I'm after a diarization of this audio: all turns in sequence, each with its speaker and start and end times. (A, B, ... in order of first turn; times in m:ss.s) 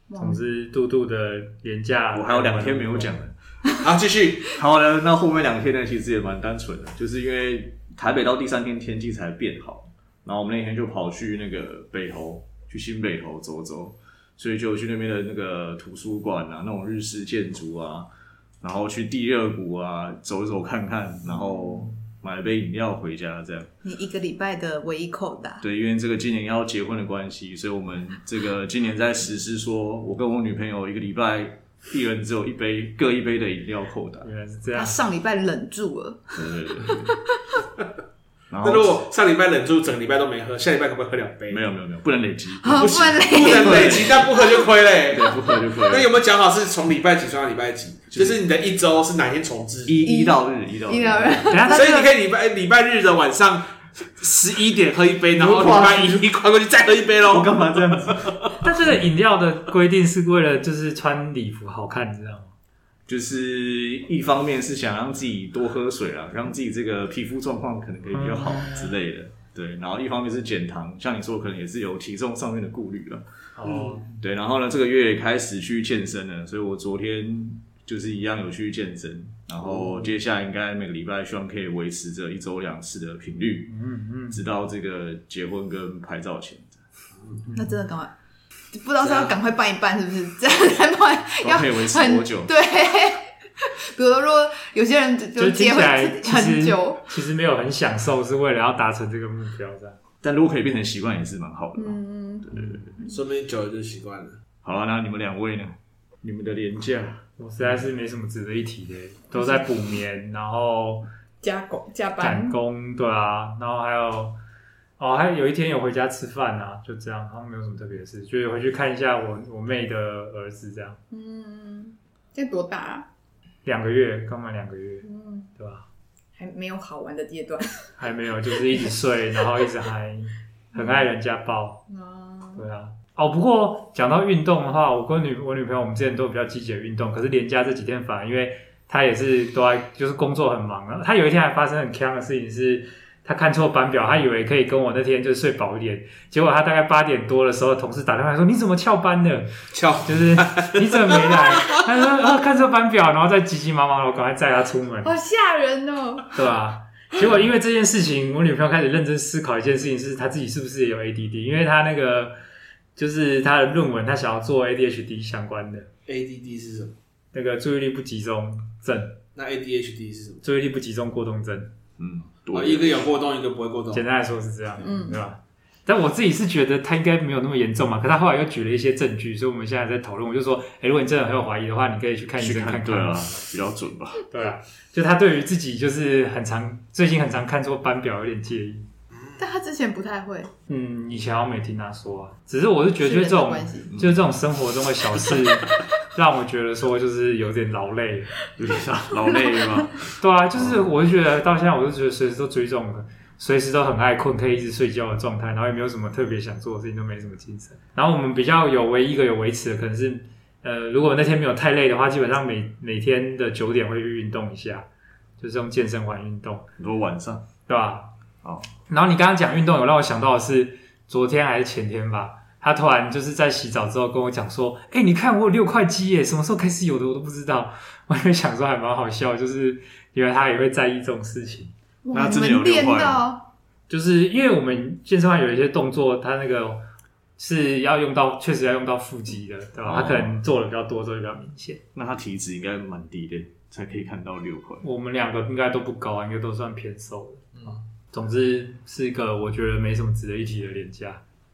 0:00.1-0:00.5 A
0:00.2-0:03.2 B
0:02.1-0:03.3 C
0:03.8-0:04.5 D
0:04.5-0:18.1 C
0:18.6-0:23.7 C
0:23.8-0:25.6 A
0:25.6-0:34.3 C
0:34.2-0:34.9 B
0:34.7-0:37.3 A
0:36.4-0:37.2 C
0:38.5-0:39.0 C
0:38.6-0:41.6 D
0:41.5-0:44.3 C
0:42.6-0:44.6 A
0:42.7-0:50.1 D
0:45.1-0:46.1 C
0:48.1-0:48.4 C
0:49.8-0:51.5 C
0:50.0-0:52.1 A
0:51.5-0:51.9 B
0:51.7-0:58.4 D
0:55.4-0:56.2 C
0:57.3-0:58.5 C
0:58.6-1:02.5 B
1:03.1-1:23.7 C
1:08.1-1:09.0 B
1:13.6-1:14.0 B
1:19.6-1:20.1 D
1:23.7-1:24.4 B
1:24.3-1:26.8 C
1:27.5-1:28.1 A
1:28.7-1:37.1 A
1:29.0-1:29.3 D
1:31.4-1:32.5 C
1:35.4-1:40.0 B
1:40.2-1:42.9 C
1:41.8-1:43.2 A
1:43.1-1:44.4 D
1:44.6-1:47.2 C
1:47.4-1:51.0 B
1:49.3-1:49.6 A
1:51.4-1:52.6 A
1:52.2-1:54.4 B
1:55.0-2:01.0 B
2:01.1-2:03.1 A
2:03.6-2:05.0 B
2:05.0-2:05.5 A
2:05.6-2:05.8 B
2:06.4-2:07.9 A
2:08.0-2:11.8 B
2:10.7-2:11.1 A
2:11.9-2:12.6 A
2:12.5-2:29.5 B
2:29.7-2:31.8 D
2:30.0-2:35.1 B
2:35.0-2:36.3 A
2:36.3-2:42.4 B
2:43.0-2:45.9 B
2:46.0-2:46.9 D
2:47.3-2:49.2 B
2:49.3-2:50.4 D
2:50.4-2:51.7 B
2:52.0-2:53.0 C
2:52.5-2:54.0 D
2:53.9-3:03.3 B
2:54.8-2:55.2 A
3:02.4-3:04.2 C
3:04.3-3:08.9 B
3:09.4-3:10.5 A
3:10.7-3:18.3 B
3:13.0-3:13.9 A
3:13.9-3:14.3 C
3:18.6-3:20.9 C
3:19.3-3:19.8 A
3:20.2-3:34.9 B
3:35.4-3:36.6 B
3:36.8-3:37.4 C
3:37.7-3:38.1 B
3:38.9-3:51.7 B
3:52.0-3:53.4 A
3:52.1-3:53.3 C
3:53.9-3:56.8 B
3:57.4-4:01.8 B
3:59.8-4:00.3 C
4:01.9-4:04.8 C
4:04.8-4:11.2 B